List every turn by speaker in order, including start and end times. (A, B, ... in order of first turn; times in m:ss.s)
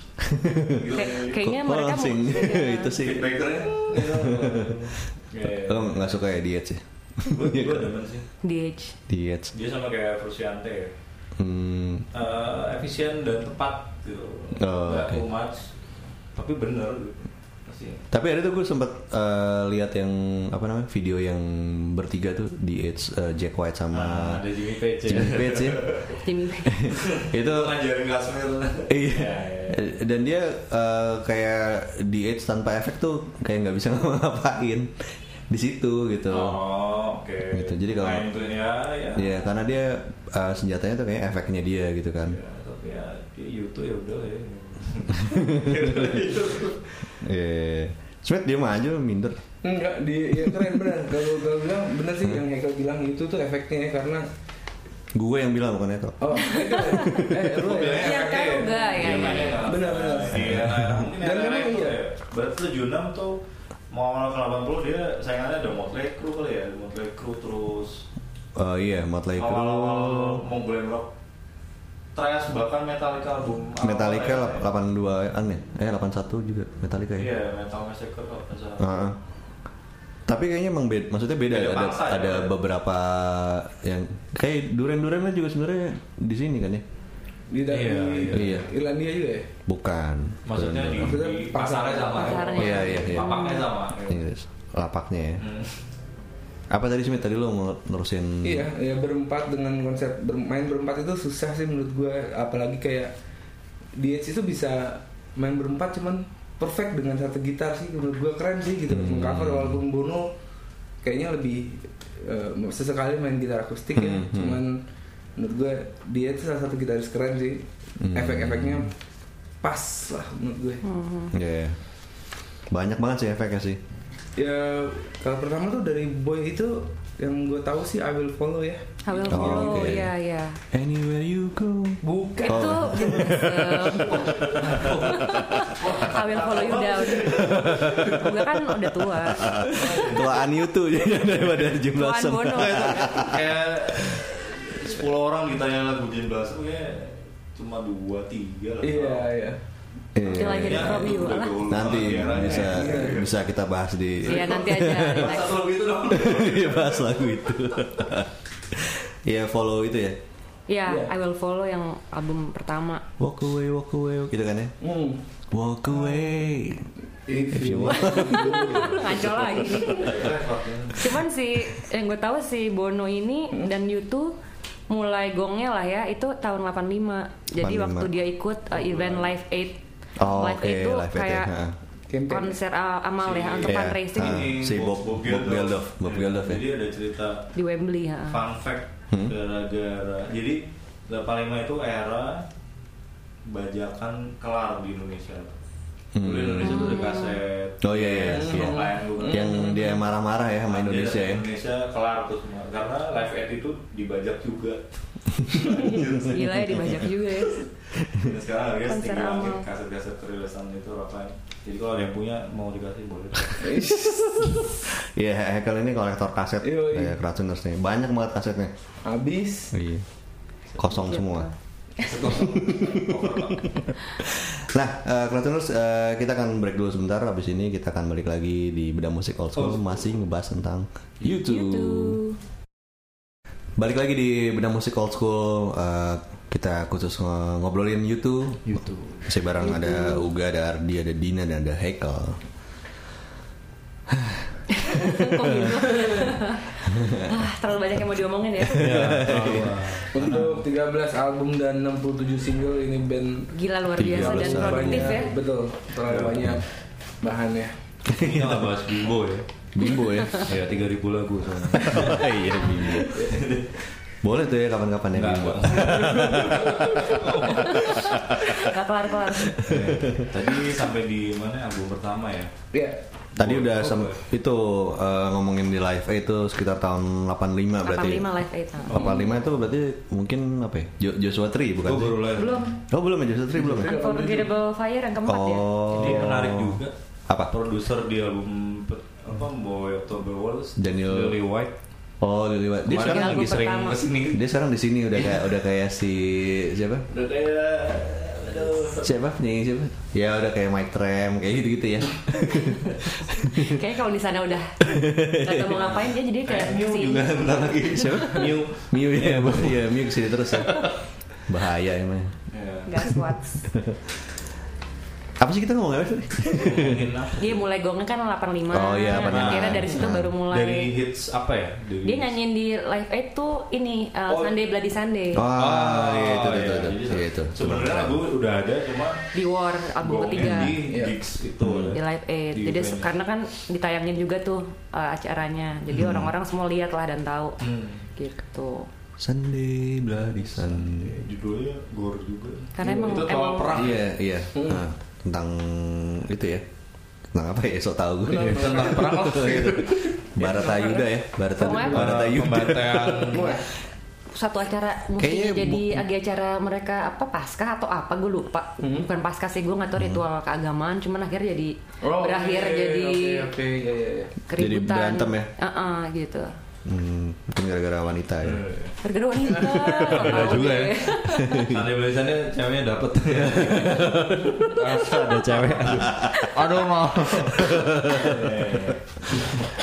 0:00.2-0:07.9 A
0:00.8-0:01.4 B
0:00.9-0:03.0 C
0:02.9-0:06.2 B
0:03.4-0:04.2 D
0:07.2-0:08.2 B
0:08.4-0:09.0 C
0:09.1-0:09.5 A
0:09.5-0:10.9 B
0:11.4-0:12.1 A
0:12.1-0:15.7 B
0:14.6-0:15.2 A
0:16.3-0:18.0 B
0:18.1-0:26.0 A
0:23.9-0:26.2 B
0:26.2-0:26.8 C
0:26.7-0:27.8 A
0:26.9-0:30.0 B
0:28.9-0:36.6 A
0:36.3-0:39.4 B
0:37.5-0:38.3 A
0:39.1-0:42.4 A
0:42.2-0:47.1 B
0:45.3-0:46.2 A
0:47.2-0:49.4 A
0:49.6-0:54.3 D
0:55.2-0:57.4 A
0:56.2-1:02.0 D
0:56.4-0:57.3 C
0:57.4-1:03.4 B
0:57.9-0:59.5 C
0:59.0-0:59.6 A
1:00.3-1:01.1 A
1:03.9-1:08.0 B
1:08.6-1:10.4 A
1:09.4-1:11.1 B
1:12.2-1:14.6 B
1:13.8-1:17.3 A
1:17.2-1:19.1 B
1:18.8-1:19.2 A
1:20.3-1:26.8 A
1:21.5-1:22.6 B
1:27.5-1:29.5 D
1:27.7-1:28.6 B
1:28.3-1:28.7 A
1:29.7-1:31.2 A
1:30.5-1:34.2 B
1:31.0-1:32.6 D
1:32.1-1:33.7 C
1:32.6-1:33.4 A
1:34.0-1:35.4 A
1:35.4-1:35.8 B
1:36.7-1:38.7 A
1:38.4-1:43.1 D
1:44.0-1:50.3 D
1:48.9-1:49.8 A
1:51.0-1:54.8 D
1:54.0-1:54.6 A
1:55.4-1:59.0 D
1:58.0-1:58.9 A
1:59.6-2:00.8 D
2:00.8-2:01.3 C
2:01.3-2:01.8 A
2:02.7-2:03.8 A
2:04.4-2:10.0 D
2:09.0-2:10.6 C
2:09.3-2:10.1 A
2:10.7-2:16.0 A
2:12.1-2:12.9 D
2:12.4-2:19.7 C
2:13.5-2:18.3 B
2:17.3-2:24.2 A
2:19.6-2:21.8 B
2:19.7-2:20.2 D
2:21.9-2:23.2 C
2:22.5-2:29.3 B
2:28.8-2:29.6 D
2:30.2-2:35.4 A
2:30.3-2:31.6 C
2:30.3-2:33.3 B
2:32.1-2:33.2 D
2:34.2-2:35.6 C
2:34.3-2:37.3 B
2:36.1-2:40.2 A
2:40.7-2:43.0 C
2:43.2-2:44.8 A
2:44.8-2:45.2 D
2:45.5-2:46.9 A
2:47.3-2:49.2 D
2:47.5-2:50.3 A
2:47.8-2:50.4 C
2:49.9-2:51.2 B
2:50.9-2:54.4 C
2:54.9-3:01.5 C
2:57.6-2:58.1 A
2:58.7-2:59.3 B
3:00.2-3:01.8 A
3:02.1-3:02.6 D
3:02.3-3:04.5 C
3:03.2-3:07.4 B
3:03.6-3:06.6 A
3:07.6-3:08.4 C
3:08.3-3:12.4 B
3:13.5-3:15.6 B
3:16.2-3:17.0 A
3:16.2-3:19.8 B
3:16.6-3:17.4 C
3:17.8-3:21.4 A
3:18.3-3:20.0 D
3:20.6-3:24.8 B
3:25.4-3:27.0 B
3:25.6-3:27.7 C
3:28.0-3:33.8 B
3:28.9-3:29.6 C
3:33.6-3:34.8 D
3:34.8-3:38.7 A
3:36.6-3:37.2 D
3:39.0-3:39.8 D
3:39.7-3:40.1 A
3:40.8-3:41.2 B
3:40.8-3:41.5 A
3:41.1-3:41.5 C
3:42.0-3:43.9 B
3:42.2-3:43.2 A
3:43.8-3:52.2 A
3:49.6-3:50.0 B
3:51.3-3:52.4 C
3:53.8-4:02.4 A
3:58.6-3:59.4 B
3:59.6-4:00.2 C
4:04.1-4:05.7 A
4:04.7-4:09.1 C
4:06.9-4:07.3 A
4:08.6-4:10.4 A
4:08.7-4:10.6 B
4:10.1-4:16.7 D
4:13.5-4:15.4 C
4:14.0-4:15.2 A
4:16.0-4:16.5 B
4:17.2-4:17.7 D
4:18.1-4:18.6 A
4:18.2-4:19.5 B
4:19.7-4:20.6 A
4:20.4-4:23.8 B
4:21.6-4:23.3 A
4:24.2-4:28.7 A
4:25.1-4:28.7 B
4:26.2-4:27.1 D
4:27.7-4:29.8 C
4:29.5-4:30.6 A
4:29.5-4:32.5 B
4:32.7-4:33.0 D
4:33.4-4:34.2 B
4:33.4-4:44.0 A
4:37.8-4:39.2 C
4:38.9-4:39.4 B
4:41.8-4:42.7 B
4:42.4-4:42.8 C
4:43.5-4:44.5 D
4:43.8-4:46.2 C
4:45.3-4:47.5 A
4:46.0-4:46.9 B
4:47.5-4:51.7 B
4:50.8-4:51.4 A
4:52.2-4:53.7 A
4:52.9-4:54.4 B
4:52.9-4:54.1 C
4:54.3-4:57.1 A
4:55.2-4:55.4 B
4:57.1-4:59.2 B
4:59.0-5:03.8 A
5:03.4-5:08.4 C
5:04.8-5:05.8 A
5:06.4-5:11.0 B
5:07.9-5:10.9 A
5:11.5-5:12.4 A
5:12.5-5:13.1 B
5:12.9-5:13.7 C
5:13.7-5:14.1 A
5:15.4-5:17.2 A
5:16.5-5:17.6 B
5:17.4-5:20.9 C
5:18.7-5:20.3 A
5:19.1-5:22.3 B
5:22.0-5:25.5 C
5:25.3-5:28.2 A
5:25.5-5:29.2 B
5:29.3-5:30.8 C
5:30.0-5:32.0 B
5:30.8-5:31.2 D
5:31.6-5:32.0 A
5:31.9-5:37.6 C
5:32.5-5:33.1 B
5:35.9-5:36.3 A
5:37.6-5:38.0 B
5:38.2-5:38.9 C
5:39.2-5:41.2 A
5:40.3-5:44.1 B
5:42.8-5:43.9 C
5:42.8-5:43.3 D
5:43.7-5:46.6 A
5:44.6-5:44.8 D
5:47.3-5:53.6 A
5:48.3-5:50.9 D
5:48.3-5:51.0 B
5:51.5-5:52.1 C
5:51.8-5:53.6 B
5:53.3-5:53.7 D
5:54.3-6:03.5 C
5:55.2-5:56.1 A
5:58.8-5:59.1 D
6:00.0-6:00.2 A
6:02.0-6:04.4 D
6:04.5-6:06.6 C
6:04.6-6:05.5 A
6:06.8-6:08.7 A
6:08.4-6:19.7 B
6:09.0-6:11.7 C
6:11.2-6:11.9 A
6:13.6-6:14.2 A
6:14.6-6:15.4 C
6:15.8-6:16.4 A
6:16.2-6:16.6 C
6:17.2-6:19.5 A